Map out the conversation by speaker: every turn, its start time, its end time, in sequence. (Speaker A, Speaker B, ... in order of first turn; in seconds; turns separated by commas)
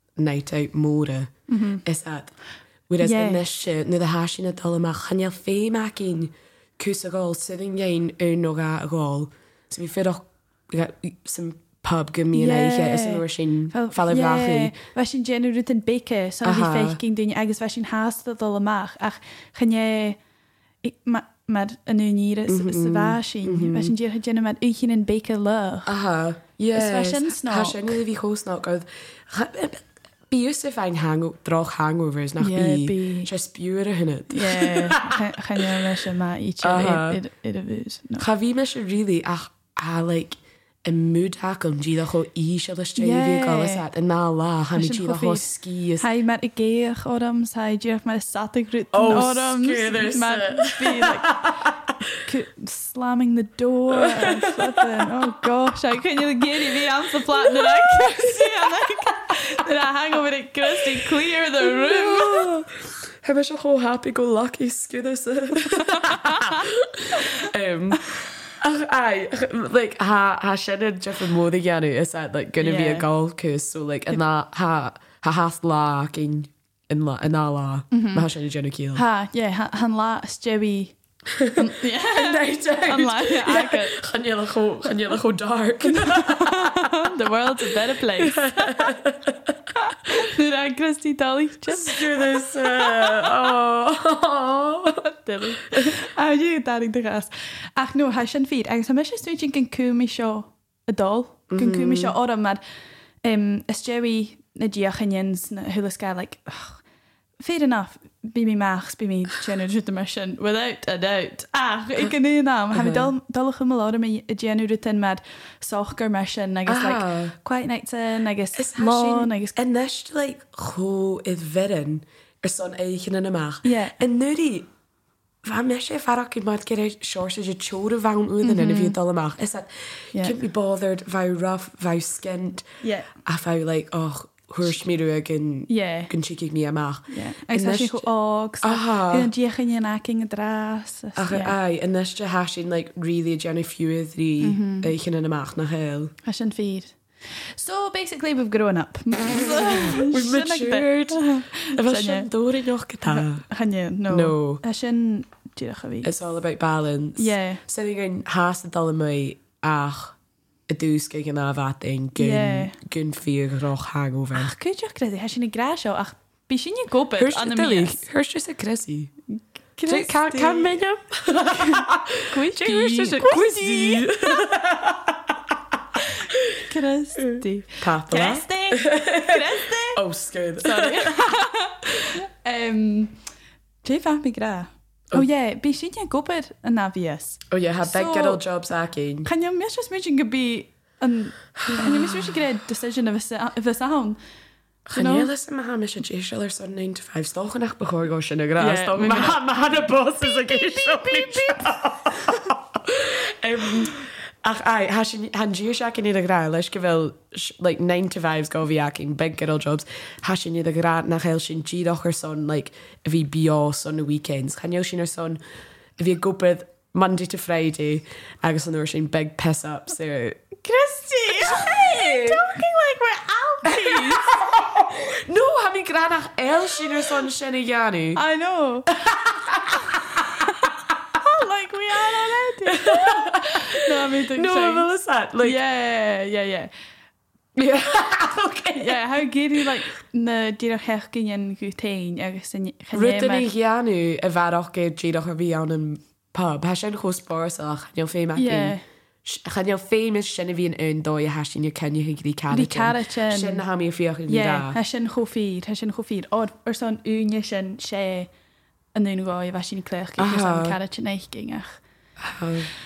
Speaker A: 0.2-1.3, Speaker B: 1.5-1.8, Speaker A: 1.8-2.3, Speaker A: 2.9-14.7, Speaker B: 3.0-3.4, Speaker B: 12.3-20.2, Speaker A: 16.4-17.0, Speaker B: 20.8-25.9, Speaker A: 22.5-23.9, Speaker A: 25.9-35.3, Speaker B: 26.7-28.0, Speaker B: 32.4-33.3, Speaker B: 34.3-38.2, Speaker A: 36.6-37.2, Speaker A: 38.2-46.0, Speaker B: 43.0-43.9, Speaker B: 44.7-51.5, Speaker A: 48.9-51.9, Speaker B: 52.2-62.5, Speaker A: 53.9-55.5, Speaker A: 56.8-59.0, Speaker A: 60.8-61.0, Speaker A: 61.6-79.0, Speaker B: 65.8-66.6, Speaker B: 72.6-73.0, Speaker B: 77.9-78.3, Speaker B: 78.9-81.0, Speaker A: 81.3-87.1, Speaker B: 81.5-84.0, Speaker B: 85.8-88.9, Speaker A: 88.2-89.6, Speaker B: 89.8-93.3, Speaker A: 91.7-95.0, Speaker B: 95.0-102.6, Speaker A: 101.5-102.2, Speaker B: 103.2-106.8, Speaker B: 107.4-119.6, Speaker A: 112.7-113.1, Speaker A: 116.7-117.3, Speaker A: 118.5-124.7, Speaker B: 123.6-124.0, Speaker A: 125.4-132.7, Speaker B: 128.4-128.9, Speaker B: 132.8-133.1, Speaker A: 133.2-138.1, Speaker B: 135.7-136.1, Speaker B: 137.1-141.5, Speaker A: 138.6-139.3, Speaker A: 141.2-146.1, Speaker B: 144.4-144.9, Speaker B: 146.2-152.3, Speaker A: 149.3-153.4, Speaker B: 153.0-156.1, Speaker A: 154.1-154.6, Speaker A: 156.0-160.2, Speaker B: 157.2-157.6, Speaker A: 160.7-164.5, Speaker B: 162.2-162.8, Speaker B: 164.3-168.0, Speaker A: 167.2-169.1, Speaker B: 169.8-170.8, Speaker A: 169.9-175.6, Speaker B: 171.3-174.4, Speaker B: 176.0-180.0, Speaker A: 176.3-176.6, Speaker A: 177.3-181.2, Speaker B: 180.6-183.1, Speaker B: 183.8-188.4, Speaker A: 187.5-189.3, Speaker B: 189.2-194.2, Speaker A: 191.6-192.3, Speaker A: 194.9-215.4, Speaker B: 194.9-195.3, Speaker B: 198.6-199.5, Speaker B: 200.2-202.4, Speaker A: 216.0-220.4, Speaker B: 220.6-224.4, Speaker A: 221.3-222.5, Speaker A: 223.6-228.2, Speaker B: 228.1-229.0, Speaker A: 228.9-230.5, Speaker B: 229.6-234.9, Speaker A: 232.7-235.6, Speaker B: 235.4-236.7, Speaker A: 237.5-239.0, Speaker B: 238.8-243.5, Speaker A: 242.9-254.8, Speaker B: 248.3-248.8, Speaker B: 252.5-253.6, Speaker B: 254.3-258.3, Speaker B: 258.9-261.8, Speaker A: 260.2-260.8, Speaker A: 262.2-262.7